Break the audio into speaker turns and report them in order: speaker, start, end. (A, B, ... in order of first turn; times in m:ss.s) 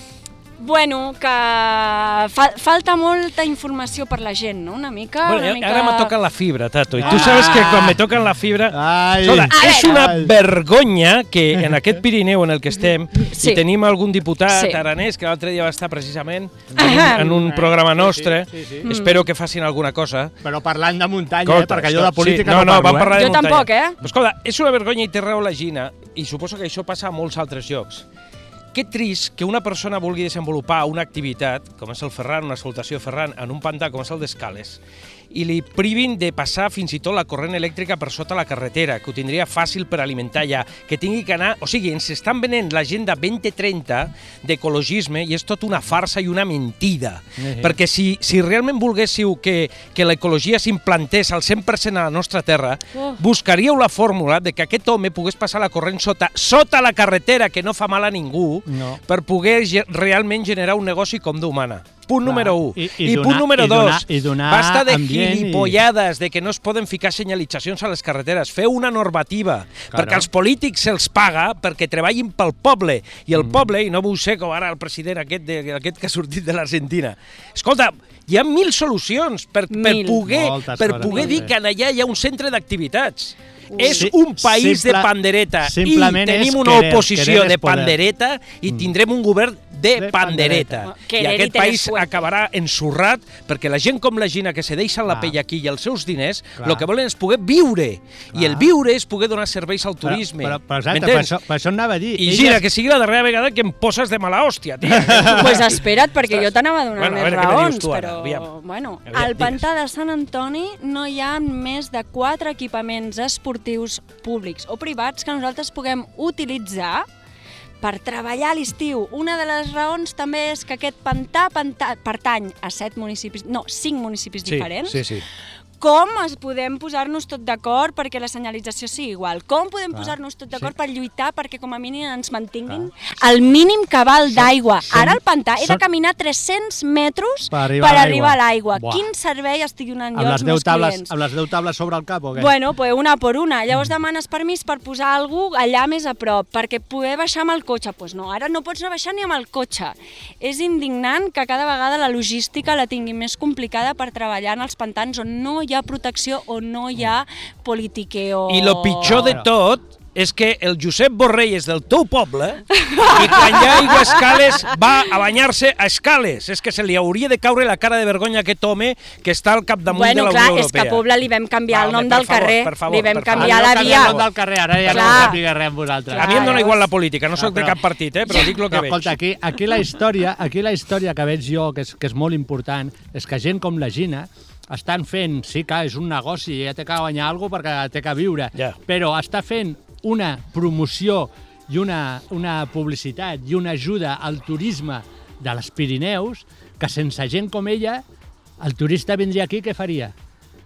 0:00.6-0:06.1 A
0:05.2-0:20.3 B
0:07.0-0:08.0 C
0:07.0-0:07.5 A
0:08.7-0:10.3 C
0:09.5-0:10.0 A
0:13.2-0:13.6 A
0:14.5-0:14.8 A
0:16.7-0:18.9 C
0:16.8-0:17.4 A
0:18.8-0:19.2 A
0:20.4-0:23.2 C
0:21.4-0:28.0 B
0:23.1-0:24.0 A
0:28.7-1:41.4 B
0:47.4-0:47.8 C
0:58.7-0:59.0 C
1:02.2-1:05.8 C
1:09.9-1:10.3 C
1:13.4-1:13.6 C
1:19.7-1:20.2 A
1:20.2-1:21.5 C
1:21.0-1:21.4 A
1:23.7-1:24.0 A
1:23.8-1:25.1 C
1:25.6-1:28.0 C
1:29.9-1:30.9 C
1:30.8-1:32.2 A
1:35.1-1:35.4 C
1:36.6-1:36.8 C
1:38.3-1:38.7 C
1:40.0-1:42.6 C
1:42.1-1:48.5 B
1:44.9-1:45.6 C
1:45.1-1:57.0 A
1:49.1-1:49.6 B
1:57.8-2:05.1 A
2:04.5-2:05.2 B
2:05.8-2:21.1 A
2:09.9-2:10.7 C
2:14.4-2:15.8 C
2:17.5-2:19.1 C
2:20.1-2:22.5 C
2:22.3-2:39.4 A
2:38.5-2:51.0 B
2:39.0-2:39.5 C
2:42.7-2:44.7 A
2:49.9-2:54.2 A
2:51.7-2:54.3 B
2:53.3-2:56.6 C
2:54.8-2:55.4 A
2:54.8-2:55.4 B
2:56.1-2:56.8 A
2:56.2-2:59.2 B
2:57.3-2:57.8 C
2:58.6-3:18.0 C
3:18.6-3:20.1 C